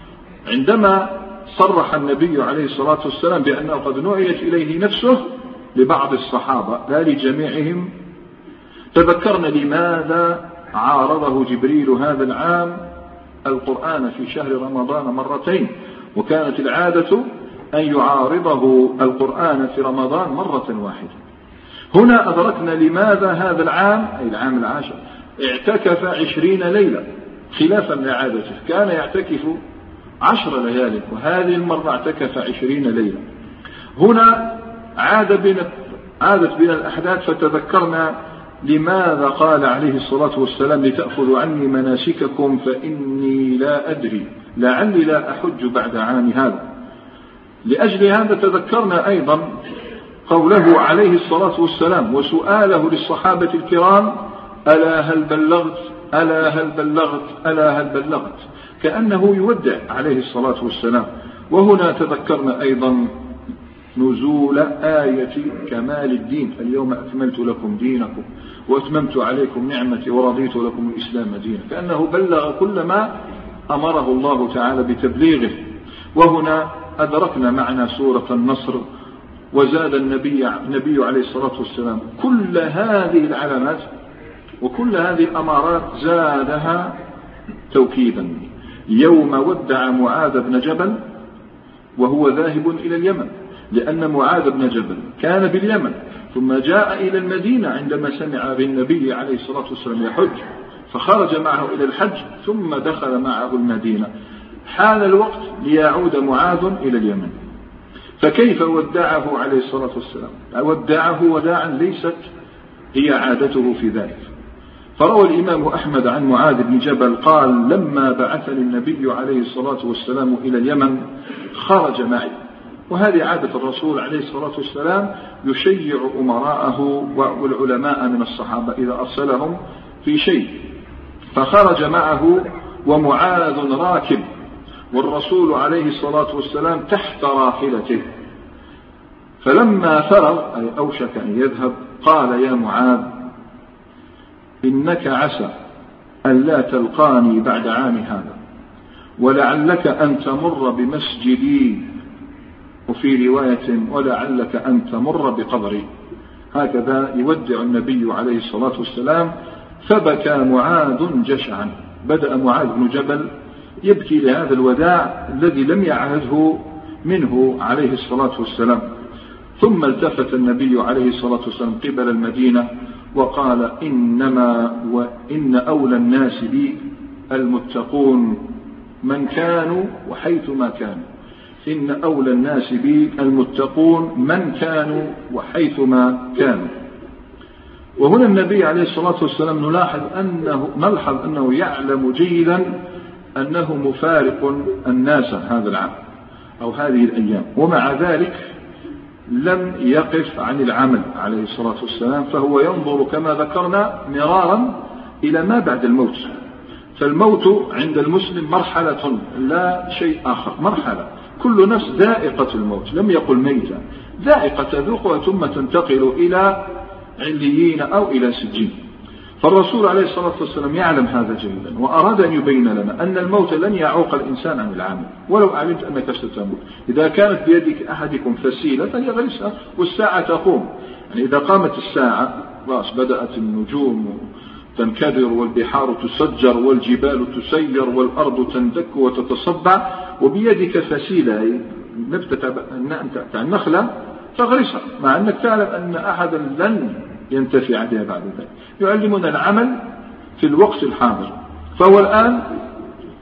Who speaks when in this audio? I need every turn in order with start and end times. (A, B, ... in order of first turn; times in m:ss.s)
0:00.5-0:05.2 A
0:05.8-0:07.9 A
0:08.9-0:12.8 A
0:13.4-0:21.2 A
0:21.9-0:29.6 A
0:30.2-0:33.2 A
0:34.0-0:35.7 A
0:36.2-0:46.6 A
0:47.6-0:49.5 A
0:50.3-1:03.1 A
1:04.0-1:13.1 A
1:13.7-1:15.6 A
1:16.1-1:18.8 A
1:19.5-1:23.9 A
1:24.6-1:27.0 A
1:27.7-1:31.0 A
1:32.0-1:44.1 A
1:44.6-1:47.3 A
1:48.2-1:52.2 A
1:52.9-1:54.2 A
1:55.0-2:01.0 A
2:01.5-2:02.4 A
2:02.9-2:10.6 A
2:11.3-2:14.2 A
2:14.9-2:18.1 A
2:19.4-2:23.1 A
2:24.6-2:25.5 A
2:26.2-2:28.4 A
2:29.2-2:31.8 A
2:32.9-2:35.9 A
2:36.5-2:39.3 A
2:39.8-2:43.3 A
2:43.8-2:48.8 A
2:49.6-2:58.4 A
2:59.0-3:01.0 A
3:01.6-3:06.7 A
3:08.0-3:12.7 A
3:13.4-3:15.9 A
3:16.6-3:18.4 A
3:19.3-3:26.3 A
3:27.0-3:36.6 A
3:37.2-3:38.8 A
3:39.4-3:54.2 A
3:54.8-4:09.7 A
4:10.4-4:12.5 A